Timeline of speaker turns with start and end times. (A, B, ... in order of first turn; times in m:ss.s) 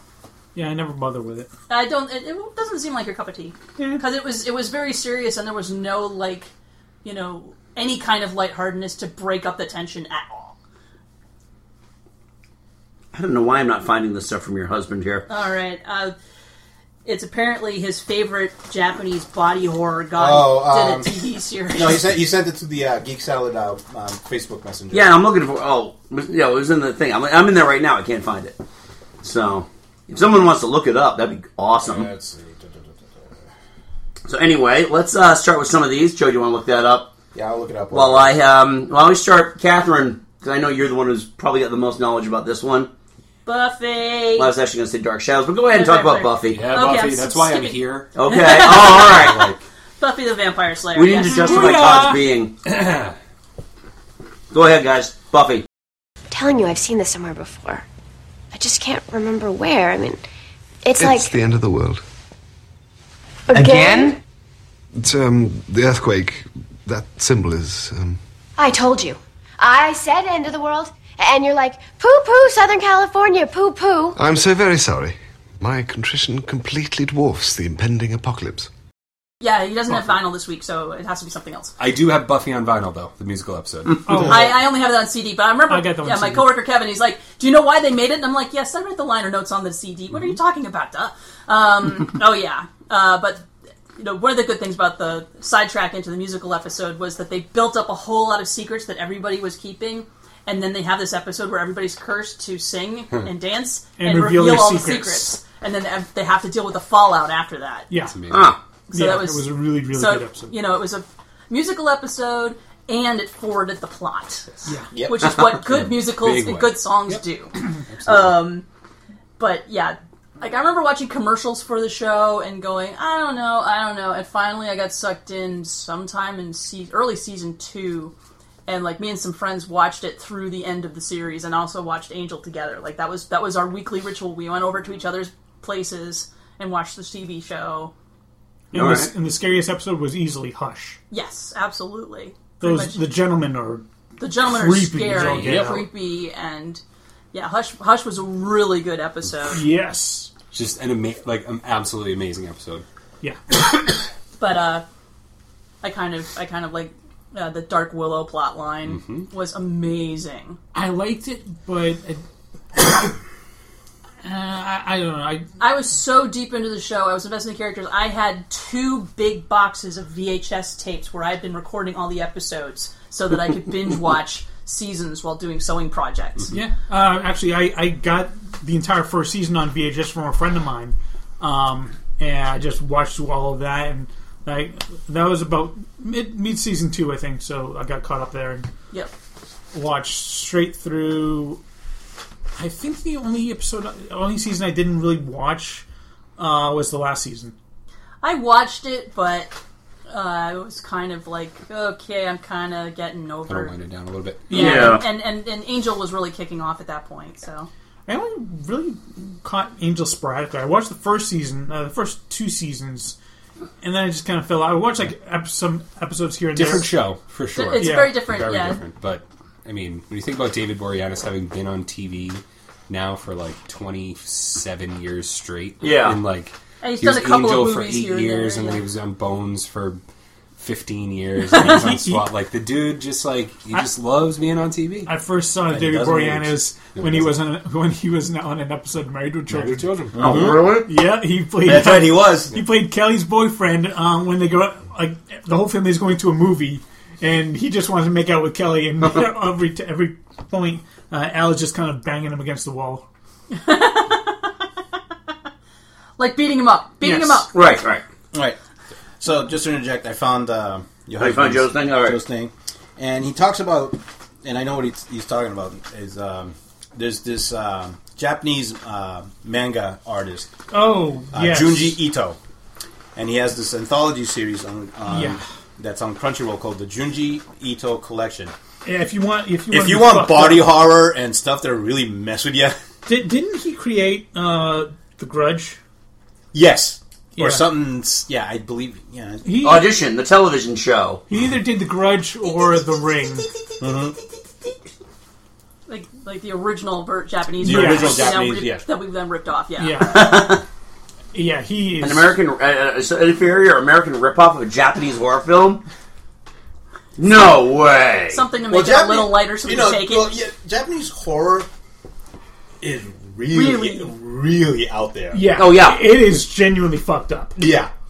0:00.5-0:01.5 A
0:01.7-0:06.5 B
0:03.8-0:04.0 A
0:07.0-0:10.5 B
0:13.1-0:15.2 C
0:15.3-0:16.1 B
0:17.0-0:22.1 B
0:20.2-0:21.2 D
0:21.7-0:25.2 D
0:24.9-0:28.6 C
0:29.2-0:32.1 C
0:31.8-0:33.5 D
0:34.3-0:37.1 C
0:37.3-0:38.4 D
0:37.9-0:42.9 C
0:43.4-0:44.5 B
0:44.4-0:46.6 C
0:45.7-0:49.2 B
0:46.5-0:49.6 E
0:48.1-0:49.5 C
0:50.0-0:52.0 B
0:50.9-0:52.5 C
0:51.1-0:52.2 A
0:52.6-0:53.1 E
0:54.5-0:55.6 C
0:56.3-0:57.8 F
0:58.5-1:00.2 F
1:00.8-1:01.3 F
1:01.0-1:02.0 G
1:03.5-1:04.1 F
1:05.0-1:08.2 G
1:08.6-1:14.1 F
1:14.2-1:18.7 G
1:19.4-1:21.7 B
1:21.8-1:24.5 E
1:24.0-1:24.6 A
1:24.2-1:33.4 B
1:25.7-1:26.5 A
1:30.1-1:30.4 E
1:34.0-1:47.9 B
1:44.0-1:45.3 A
1:47.9-1:48.2 A
1:48.1-1:48.5 E
1:48.3-1:48.6 C
1:48.9-1:58.6 B
1:48.9-1:50.5 A
1:54.9-1:55.4 D
1:55.7-1:58.4 E
1:59.4-2:08.1 B
2:08.7-2:17.9 B
2:18.7-2:21.0 A
2:18.7-2:19.1 C
2:21.1-2:23.0 B
2:22.6-2:23.8 A
2:24.2-2:26.8 B
2:24.4-2:25.9 A
2:25.4-2:25.7 D
2:27.3-2:29.6 B
2:29.5-2:30.3 A
2:30.5-2:32.8 E
2:33.2-2:33.6 A
2:34.4-2:34.8 B
2:35.8-2:40.6 B
2:38.8-2:39.3 E
2:40.7-2:42.2 A
2:42.8-2:43.0 A
2:44.2-2:45.5 A
2:45.6-2:56.5 B
2:56.5-3:08.6 A
3:09.7-3:11.6 A
3:12.6-3:15.8 A
3:16.4-3:17.5 A
3:18.2-3:19.5 B
3:20.1-3:23.7 B
3:23.5-3:24.9 E
3:24.5-3:27.7 B
3:24.5-3:25.0 A
3:24.5-3:25.0 C
3:28.1-3:33.2 A
3:33.8-3:36.9 A
3:36.5-3:50.0 E
3:37.6-3:38.8 B
3:37.7-3:38.2 A
3:45.8-3:46.2 C
3:46.8-3:48.8 B
3:50.6-3:55.1 E
3:51.5-3:52.2 A
3:55.0-4:13.0 A
3:55.7-3:56.6 D
3:57.0-3:57.3 E
3:59.5-4:00.6 E
4:00.1-4:00.9 D
4:01.6-4:02.5 D
4:13.5-4:14.4 B
4:16.2-4:17.5 B
4:17.0-4:18.0 C
4:18.3-4:18.6 D
4:19.2-4:30.5 D
4:21.2-4:22.2 C
4:30.7-4:32.0 A
4:31.3-4:32.4 D
4:33.1-4:38.5 D
4:35.1-4:35.4 A
4:38.8-4:40.7 A
4:39.7-4:42.8 D
4:43.0-4:45.8 A
4:46.5-4:49.4 D
4:47.4-4:47.7 A
4:49.4-4:49.9 A
4:49.6-4:51.2 C
4:51.3-4:53.5 A
4:53.8-4:54.1 D
4:55.9-5:00.1 B
4:57.6-4:58.8 D
4:57.6-4:58.3 A
4:59.8-5:00.5 A
5:00.1-5:00.6 C
5:01.3-5:02.3 A
5:02.0-5:05.8 C
5:07.2-5:08.4 C
5:08.3-5:10.3 B
5:08.7-5:11.7 D
5:12.8-5:15.5 D
5:13.5-5:14.1 B
5:15.3-5:17.6 A
5:15.5-5:16.1 C
5:17.6-5:17.9 D